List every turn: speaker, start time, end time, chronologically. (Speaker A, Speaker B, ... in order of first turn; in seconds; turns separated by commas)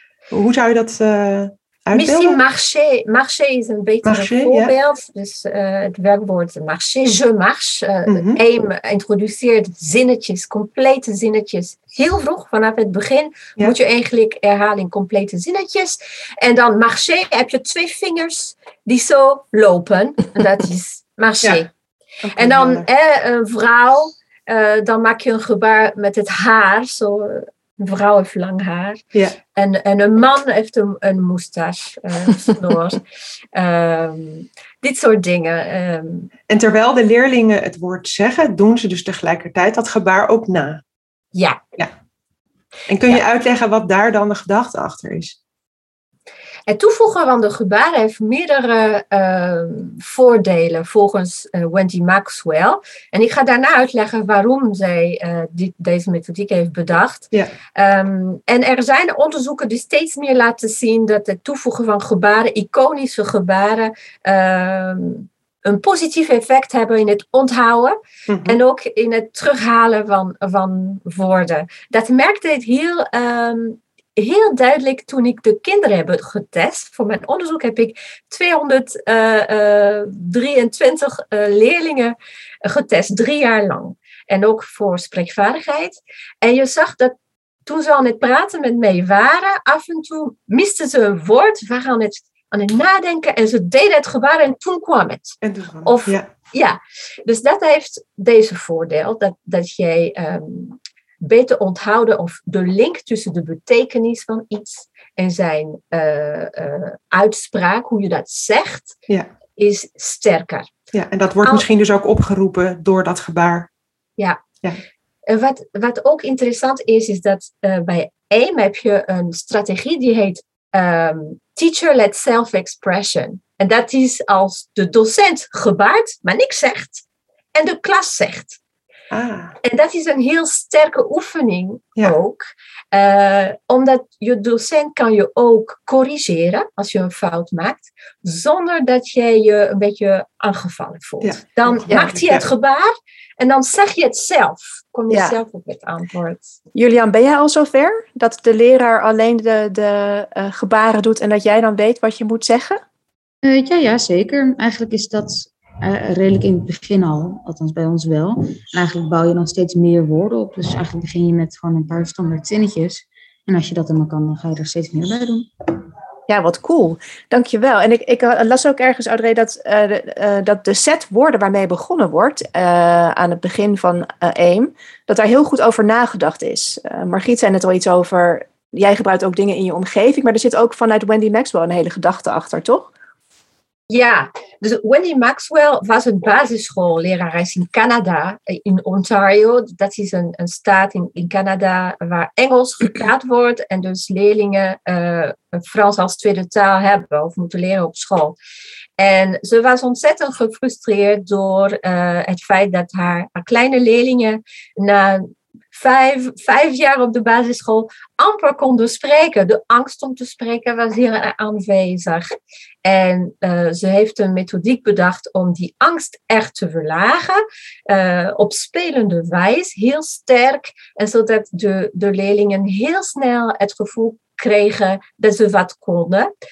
Speaker A: 0.3-2.4, Speaker B: 1.9-21.7, Speaker A: 4.0-4.7, Speaker A: 8.1-8.4, Speaker A: 22.2-22.9, Speaker B: 22.4-29.0, Speaker B: 29.5-33.0, Speaker B: 33.5-36.3, Speaker A: 36.5-40.8, Speaker B: 41.3-41.6, Speaker A: 42.9-45.4, Speaker B: 46.7-87.1, Speaker A: 68.3-68.6, Speaker B: 87.7-109.0, Speaker A: 95.4-96.3, Speaker B: 109.6-110.7, Speaker A: 110.9-113.7, Speaker B: 115.3-127.0, Speaker B: 127.5-128.6, Speaker A: 129.1-129.5, Speaker B: 129.6-146.6, Speaker A: 141.2-142.4, Speaker C: 145.1-145.3, Speaker C: 146.7-152.8, Speaker D: 153.4-165.5, Speaker C: 166.3-182.9, Speaker B: 183.9-198.4, Speaker B: 199.0-212.3, Speaker B: 212.8-226.3